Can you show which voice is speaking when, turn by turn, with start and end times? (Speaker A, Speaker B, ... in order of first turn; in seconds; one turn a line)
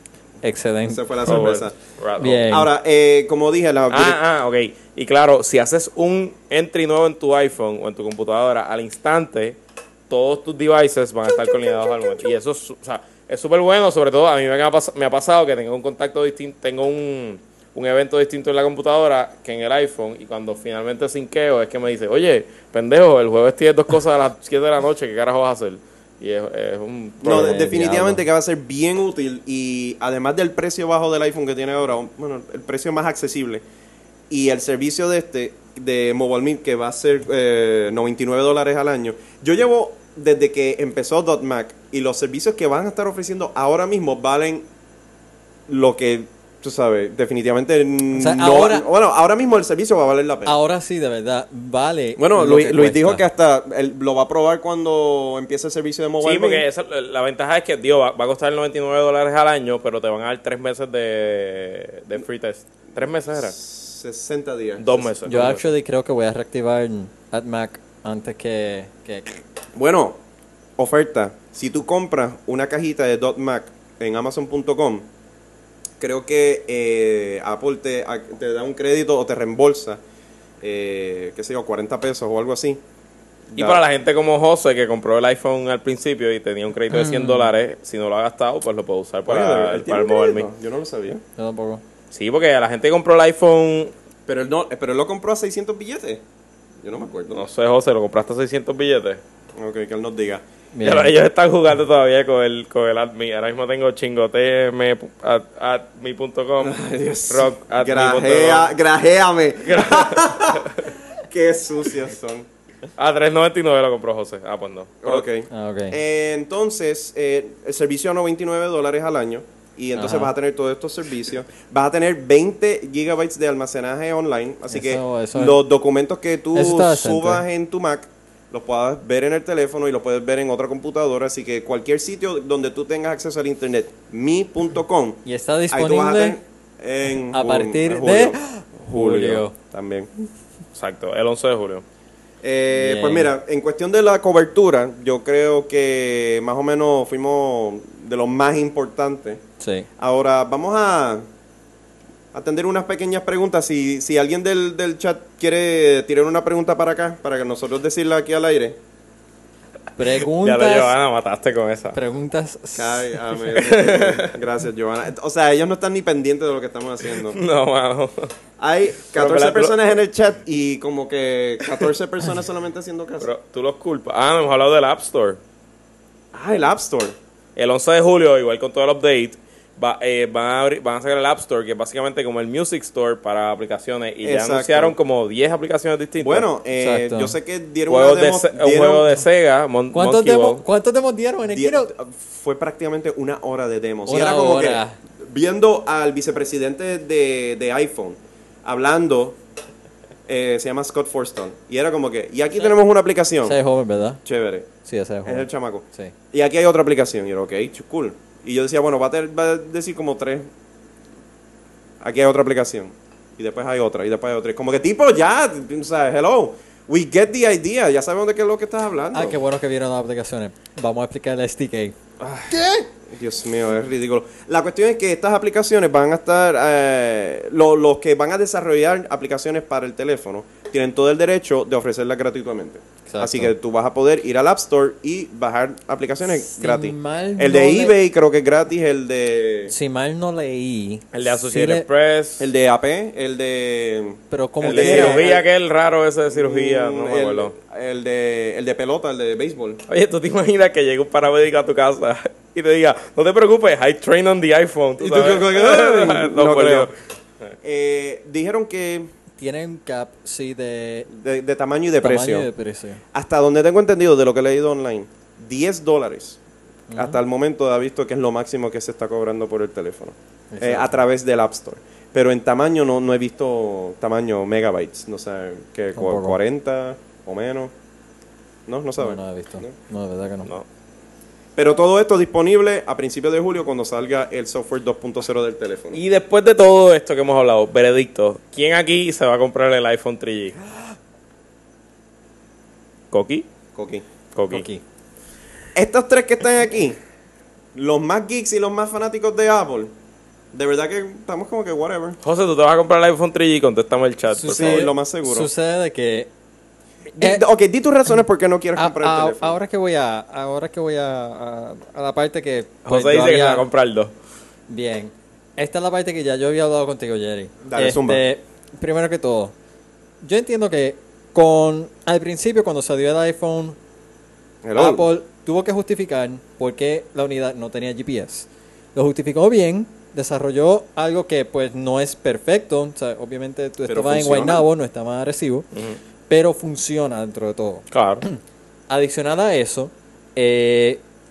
Speaker A: 0.4-1.4
Speaker B: 0.9-1.8
Speaker C: 1.3-2.5
Speaker A: 2.2-2.7
Speaker B: 2.5-4.2
Speaker C: 3.9-9.6
Speaker C: 10.1-27.6
Speaker B: 27.2-33.6
Speaker A: 27.2-28.2
Speaker B: 34.3-44.7
Speaker B: 45.7-50.5
Speaker A: 48.1-48.9
Speaker A: 50.5-53.2
Speaker B: 52.2-56.6
Speaker C: 56.2-63.5
Speaker B: 63.3-65.5
Speaker C: 64.8-65.7
Speaker A: 65.3-69.4
Speaker B: 69.8-70.2
Speaker B: 70.8-75.1
Speaker B: 76.0-80.0
Speaker B: 80.6-82.8
Speaker B: 83.5-83.8
Speaker C: 83.5-90.5
Speaker A: 86.9-87.5
Speaker B: 89.3-91.2
Speaker A: 91.4-91.8
Speaker C: 92.1-93.9
Speaker B: 94.3-96.2
Speaker B: 96.8-97.5
Speaker C: 97.3-99.2
Speaker B: 99.6-100.4
Speaker A: 100.7-101.1
Speaker C: 100.8-106.8
Speaker B: 106.6-112.5
Speaker C: 107.3-108.7
Speaker C: 109.7-110.9
Speaker C: 113.0-115.3
Speaker B: 115.0-138.4
Speaker A: 115.5-116.0
Speaker A: 120.0-120.3
Speaker A: 124.7-125.6
Speaker A: 126.5-127.4
Speaker A: 135.3-136.4
Speaker A: 137.3-139.6
Speaker B: 138.9-140.1
Speaker C: 139.0-139.4
Speaker C: 140.8-141.8
Speaker B: 142.4-149.4
Speaker A: 142.7-143.3
Speaker A: 149.6-149.9
Speaker B: 150.0-151.2
Speaker B: 152.3-158.8
Speaker A: 160.0-160.9
Speaker C: 160.3-162.0
Speaker A: 161.9-163.2
Speaker B: 162.8-167.4
Speaker C: 163.6-164.4
Speaker C: 167.2-168.3
Speaker B: 168.6-173.3
Speaker C: 169.1-169.8
Speaker C: 173.2-175.4
Speaker B: 176.3-177.2
Speaker C: 177.6-186.5
Speaker B: 184.2-184.9
Speaker B: 186.2-189.2
Speaker A: 186.8-187.3
Speaker C: 187.9-190.6
Speaker A: 189.9-191.9
Speaker B: 191.5-199.4
Speaker A: 194.1-195.0
Speaker B: 200.3-203.6
Speaker A: 203.4-204.2
Speaker B: 204.2-204.7
Speaker A: 204.8-206.1
Speaker B: 205.2-210.5
Speaker B: 212.0-219.4
Speaker A: 219.1-222.0
Speaker B: 222.2-239.7
Speaker A: 222.5-222.9
Speaker A: 233.1-233.5
Speaker A: 236.4-238.0
Speaker A: 239.7-241.9
Speaker C: 241.1-242.5
Speaker B: 242.4-245.4
Speaker A: 244.3-245.4
Speaker C: 244.6-247.5
Speaker B: 246.3-249.8
Speaker C: 249.9-256.9
Speaker B: 255.0-256.9
Speaker B: 257.6-259.1
Speaker A: 259.4-261.1
Speaker B: 261.1-262.5
Speaker A: 262.0-263.0
Speaker B: 263.1-266.4
Speaker A: 266.9-267.2
Speaker B: 266.9-277.7
Speaker A: 270.5-271.0
Speaker A: 275.9-276.4
Speaker B: 278.7-279.7
Speaker A: 279.0-280.5
Speaker B: 281.6-286.0
Speaker C: 285.9-290.6
Speaker C: 293.1-293.5
Speaker B: 293.8-294.0
Speaker C: 294.4-294.7
Speaker A: 294.5-294.8
Speaker B: 295.8-297.0
Speaker B: 297.8-299.9
Speaker B: 300.5-302.2
Speaker C: 302.2-304.9
Speaker A: 304.4-306.3
Speaker B: 304.5-305.5
Speaker B: 307.1-309.6
Speaker A: 307.2-307.4
Speaker A: 308.8-313.6
Speaker C: 312.9-314.1
Speaker A: 314.7-319.5
Speaker B: 317.6-318.2
Speaker A: 320.2-323.8
Speaker B: 324.6-325.1
Speaker A: 324.8-335.7
Speaker B: 333.9-334.6
Speaker A: 336.3-338.4
Speaker C: 337.9-338.2
Speaker A: 338.9-341.0